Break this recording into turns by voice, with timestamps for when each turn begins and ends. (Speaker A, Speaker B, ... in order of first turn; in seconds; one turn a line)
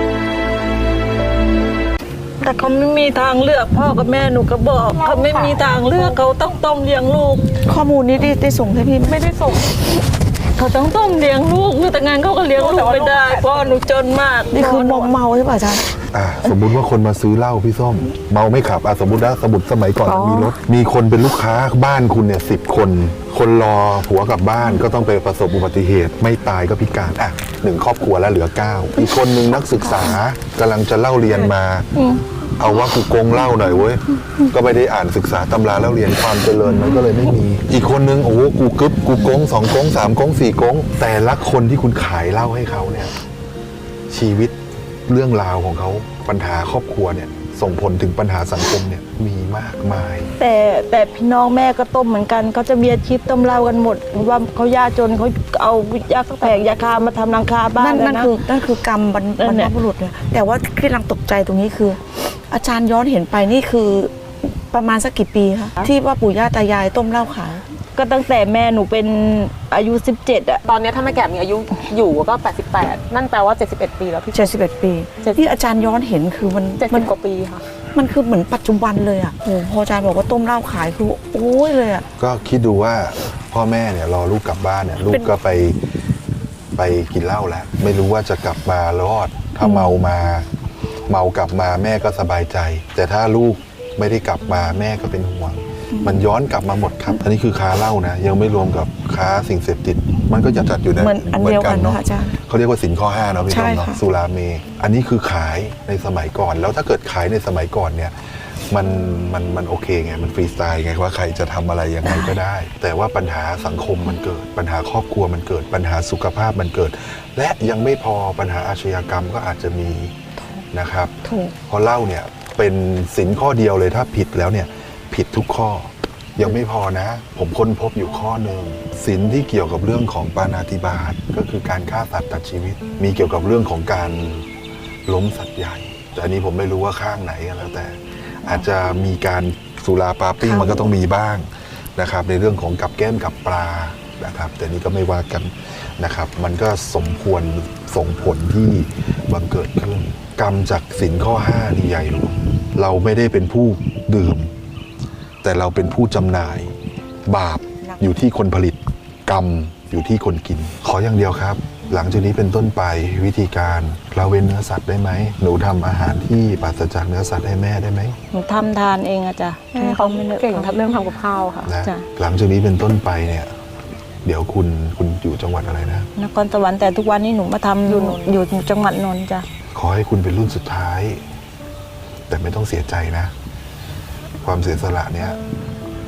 Speaker A: 2.4-7.5
Speaker B: 4.9-6.2
Speaker C: 7.6-9.2
Speaker B: 9.1-9.8
Speaker A: 10.5-15.1
Speaker B: 12.5-13.8
Speaker C: 14.5-15.9
Speaker D: 16.1-31.9
Speaker C: 20.1-20.6
Speaker D: 32.5-43.1
Speaker D: 44.1-44.5
Speaker D: 45.1-50.3
Speaker A: 50.4-58.3
Speaker C: 57.8-67.6
Speaker A: 59.4-59.7
Speaker A: 67.9-70.6
Speaker B: 70.7-74.6
Speaker C: 74.3-77.1
Speaker B: 75.2-75.5
Speaker B: 76.8-77.7
Speaker C: 77.9-82.0
Speaker D: 82.2-85.8
Speaker D: 86.8-90.5
Speaker C: 89.6-89.9
Speaker D: 91.1-108.1
Speaker C: 101.0-102.3
Speaker C: 103.5-104.0
Speaker D: 108.7-120.2
Speaker D: 120.7-134.5
Speaker D: 135.1-154.5
Speaker C: 140.4-140.9
Speaker D: 155.4-156.7
Speaker D: 157.3-168.2
Speaker A: 168.3-170.8
Speaker B: 169.7-171.7
Speaker D: 171.7-173.5
Speaker D: 174.2-176.1
Speaker A: 176.2-179.4
Speaker B: 177.9-178.3
Speaker D: 179.7-181.2
Speaker D: 182.3-183.3
Speaker D: 184.4-185.4